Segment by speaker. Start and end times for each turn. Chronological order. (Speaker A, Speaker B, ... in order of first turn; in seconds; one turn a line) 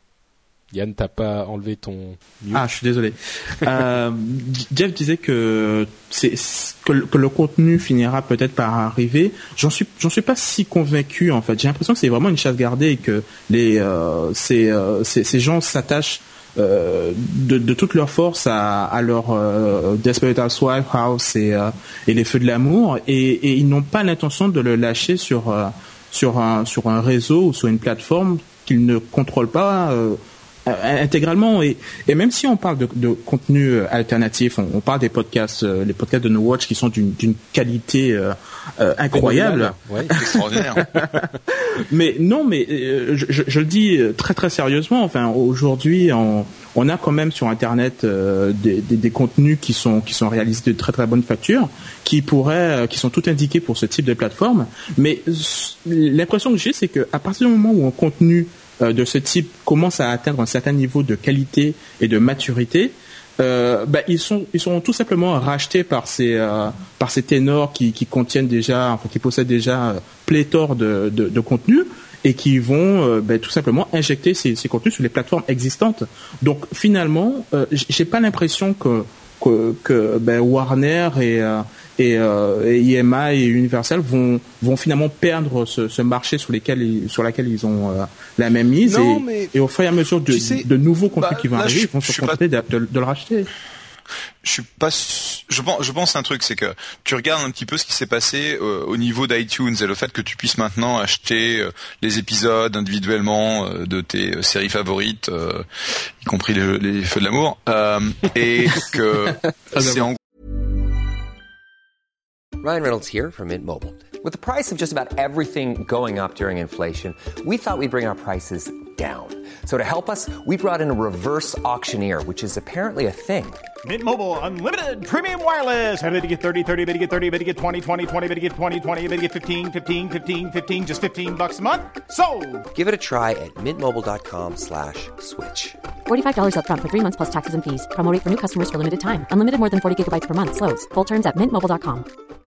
Speaker A: 0.7-2.6
Speaker B: 2.5-93.5
Speaker A: 39.1-40.2
Speaker C: 40.2-40.9
Speaker A: 40.8-41.1
Speaker A: 88.8-89.5
Speaker A: 90.3-90.7
Speaker C: 91.2-92.4
Speaker C: 94.4-105.7
Speaker C: 106.2-110.2
Speaker B: 109.7-110.0
Speaker D: 112.6-123.7
Speaker E: 123.8-132.7
Speaker D: 132.7-135.8
Speaker F: 136.1-142.1